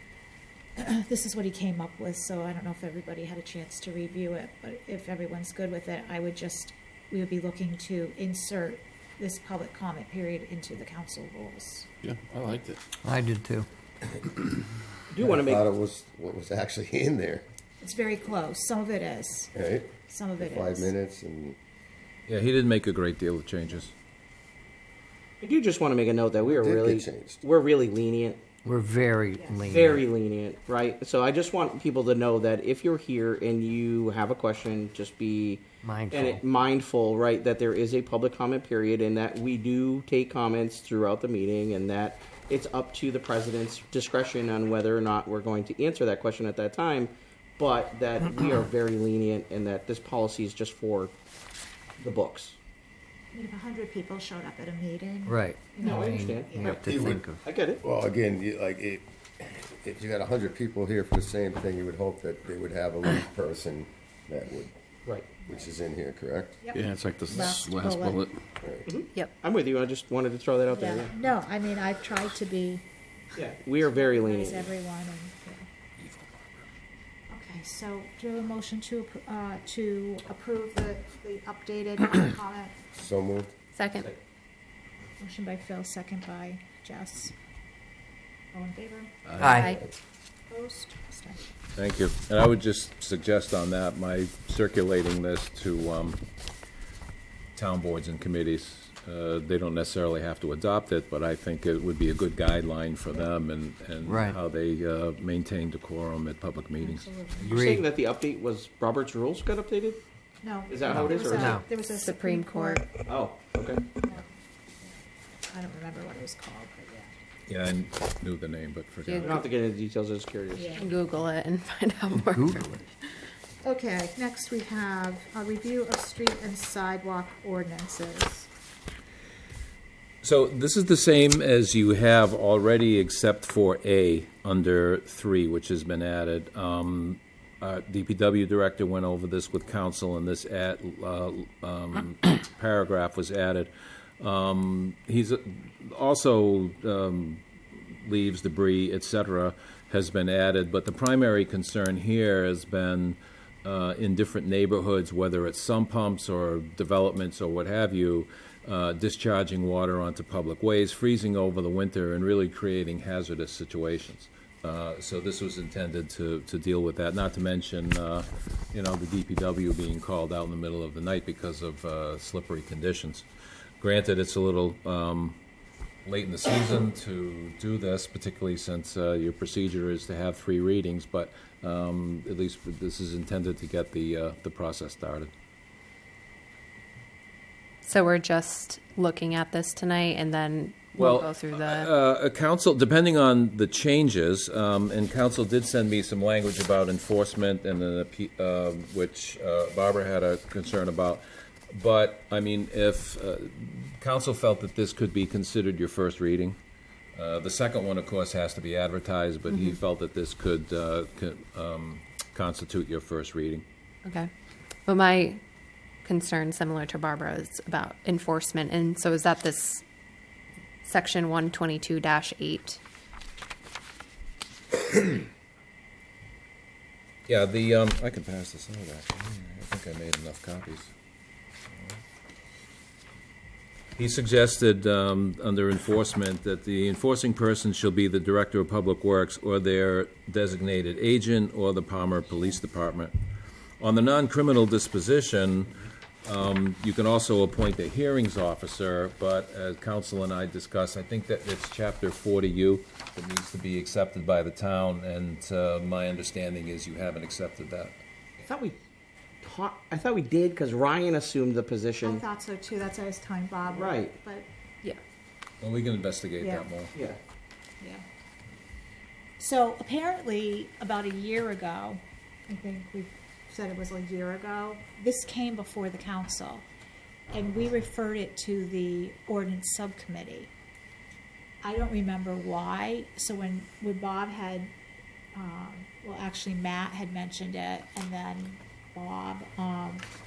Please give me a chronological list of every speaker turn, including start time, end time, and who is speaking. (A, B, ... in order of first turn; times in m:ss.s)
0:00.8-0:11.9 A
0:12.0-0:12.8 B
0:13.0-0:13.7 C
0:15.1-0:15.6 D
0:15.2-0:17.4 E
0:17.8-0:19.5 A
0:19.6-0:21.6 E
0:20.1-0:20.9 A
0:22.3-0:23.9 F
0:25.4-0:28.4 D
0:26.5-0:27.4 E
0:28.6-0:30.0 C
0:29.4-0:29.7 A
0:29.6-0:51.1 D
0:35.8-0:36.4 C
0:52.0-0:52.6 D
0:53.3-0:56.8 A
0:55.3-0:57.4 C
0:55.8-0:56.8 D
0:56.8-0:57.2 E
0:57.4-0:57.8 D
0:57.8-1:04.7 E
1:05.4-1:06.6 E
1:06.6-1:08.3 A
1:06.7-1:08.4 B
1:08.6-1:08.9 E
1:08.9-1:11.1 D
1:10.7-1:12.8 A
1:13.4-1:14.7 D
1:13.8-1:15.7 A
1:17.3-1:22.8 A
1:23.0-1:23.5 E
1:23.8-1:24.1 G
1:25.2-1:27.3 A
1:28.5-1:29.6 A
1:29.4-1:29.7 C
1:29.4-1:29.8 G
1:30.5-1:31.4 A
1:31.8-1:36.2 F
1:37.6-1:47.1 F
1:44.0-1:44.4 C
1:46.8-1:47.8 A
1:47.4-1:47.8 C
1:47.5-1:50.0 D
1:50.4-1:52.9 A
1:50.7-1:51.6 D
1:51.3-1:51.6 C
1:51.9-1:52.8 G
1:53.1-1:53.8 D
1:54.0-1:54.3 A
1:54.8-1:57.1 A
1:57.5-1:59.5 F
1:59.1-1:59.4 G
1:59.2-2:00.8 D
2:00.6-2:01.0 A
2:00.8-2:02.9 G
2:02.3-2:02.7 C
2:03.6-2:08.5 A
2:10.2-2:53.3 F
2:53.8-2:55.4 F
2:56.1-3:05.3 F
3:07.8-3:11.9 G
3:11.0-3:26.6 F
3:27.2-3:33.6 F
3:29.5-3:29.8 G
3:34.0-3:34.3 G
3:34.9-3:35.4 G
3:36.0-3:39.8 G
3:40.8-3:42.8 G
3:47.3-3:50.9 F
3:51.7-3:52.0 F
3:54.0-4:03.1 F
4:03.8-4:05.7 F
4:06.2-4:18.0 F
4:18.4-4:18.8 D
4:19.4-4:22.2 D
4:22.0-4:24.5 A
4:23.7-4:24.1 D
4:25.6-4:26.9 F
4:26.4-4:26.7 A
4:26.9-4:27.2 D
4:29.4-4:36.7 A
4:37.3-4:40.5 A
4:41.6-4:44.7 A
4:45.3-4:50.1 A